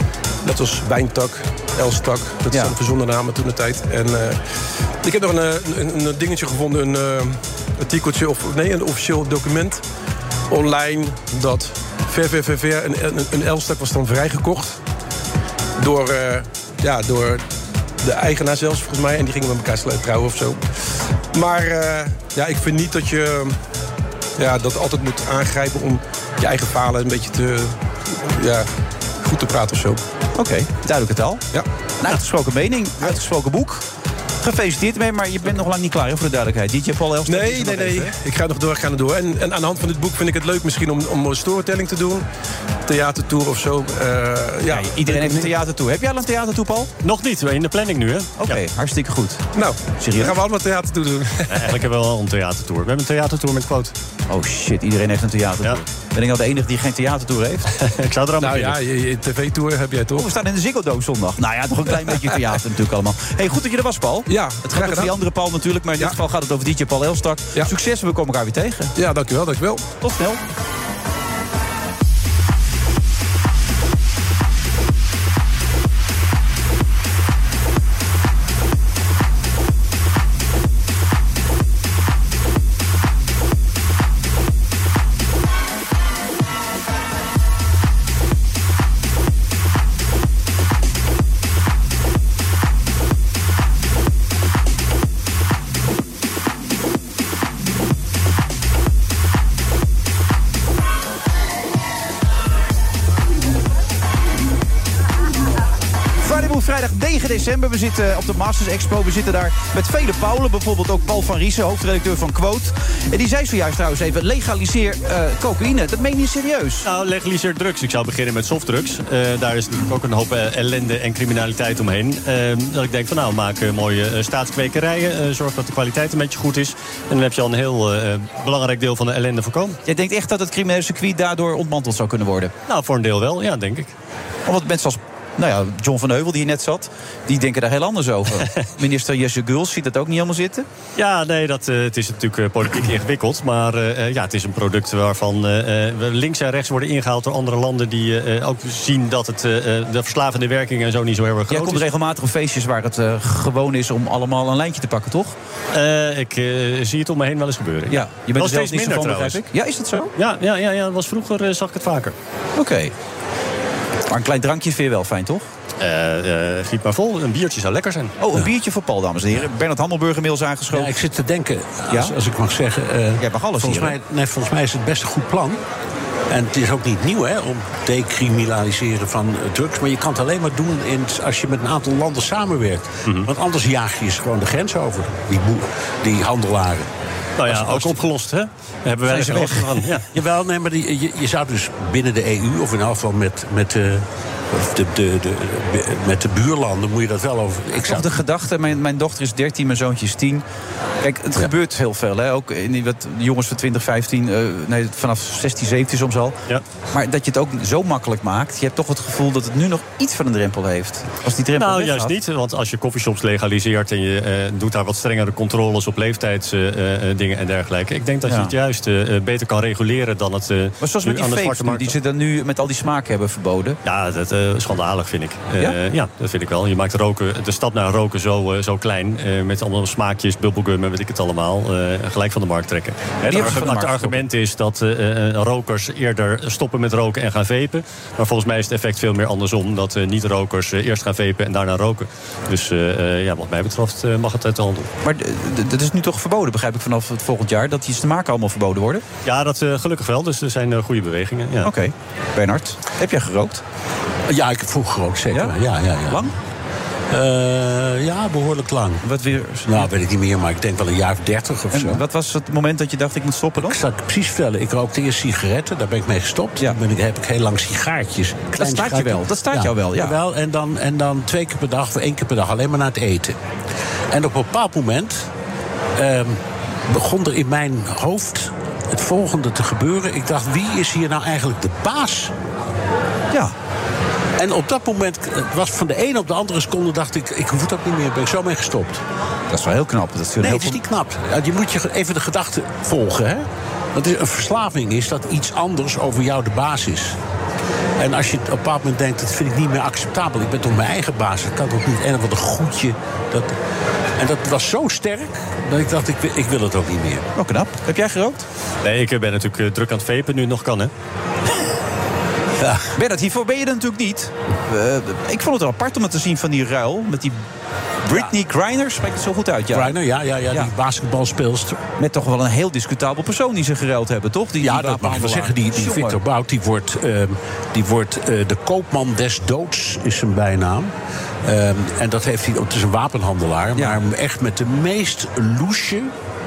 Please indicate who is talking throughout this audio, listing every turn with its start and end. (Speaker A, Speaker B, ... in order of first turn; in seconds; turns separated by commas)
Speaker A: 0.4-4.4, Speaker B: 2.5-2.8, Speaker A: 5.0-9.8, Speaker A: 10.5-14.8, Speaker A: 15.8-17.4, Speaker A: 18.0-20.6, Speaker A: 21.3-23.6, Speaker A: 24.4-28.7, Speaker A: 29.2-30.0, Speaker B: 30.4-31.4, Speaker B: 32.0-33.8, Speaker B: 34.4-38.1, Speaker A: 37.3-42.2, Speaker A: 42.9-45.6, Speaker B: 44.7-46.9, Speaker C: 47.0-48.6, Speaker B: 48.4-50.4, Speaker A: 49.5-51.8, Speaker C: 51.5-54.0, Speaker B: 54.3-57.7, Speaker C: 57.8-58.8, Speaker A: 58.4-60.3, Speaker B: 60.1-68.9, Speaker A: 62.0-62.4, Speaker A: 64.3-65.2, Speaker A: 69.0-69.9, Speaker B: 70.0-70.4, Speaker B: 106.2-116.9, Speaker C: 116.8-129.8, Speaker B: 129.8-132.5, Speaker C: 132.7-133.9, Speaker B: 134.5-140.7, Speaker C: 141.0-151.8, Speaker B: 151.5-155.3, Speaker C: 155.7-159.4, Speaker B: 157.9-160.1, Speaker C: 160.2-162.2, Speaker B: 162.6-162.9, Speaker B: 164.1-165.5, Speaker C: 165.8-168.1, Speaker B: 168.2-171.0, Speaker D: 170.7-175.6, Speaker B: 171.9-172.2, Speaker B: 173.2-174.0, Speaker D: 176.3-186.9, Speaker C: 187.4-190.1, Speaker D: 187.5-188.0, Speaker B: 189.1-189.7, Speaker D: 189.2-189.5, Speaker D: 190.1-198.2, Speaker B: 197.8-200.4, Speaker B: 201.0-206.4, Speaker B: 206.9-212.2, Speaker C: 211.6-221.9, Speaker B: 218.2-218.5, Speaker B: 220.8-223.8, Speaker C: 223.8-244.9, Speaker B: 233.2-234.2, Speaker B: 245.0-249.1, Speaker C: 249.2-251.7, Speaker B: 251.6-253.6, Speaker D: 254.3-256.3, Speaker B: 256.1-256.3, Speaker D: 257.1-259.1, Speaker B: 259.0-259.9, Speaker D: 259.6-262.0, Speaker B: 261.7-263.8, Speaker D: 263.6-273.4, Speaker B: 268.6-270.2, Speaker D: 274.1-275.3, Speaker D: 276.0-282.3, Speaker D: 284.4-289.0, Speaker B: 289.5-290.8, Speaker D: 290.4-297.2, Speaker D: 298.0-303.6, Speaker D: 304.2-307.3, Speaker B: 307.4-308.5, Speaker C: 308.8-310.9, Speaker D: 312.6-312.9, Speaker B: 312.9-317.4, Speaker B: 318.0-320.0, Speaker D: 319.7-321.8, Speaker B: 322.0-326.2, Speaker D: 324.6-330.9, Speaker D: 331.4-336.1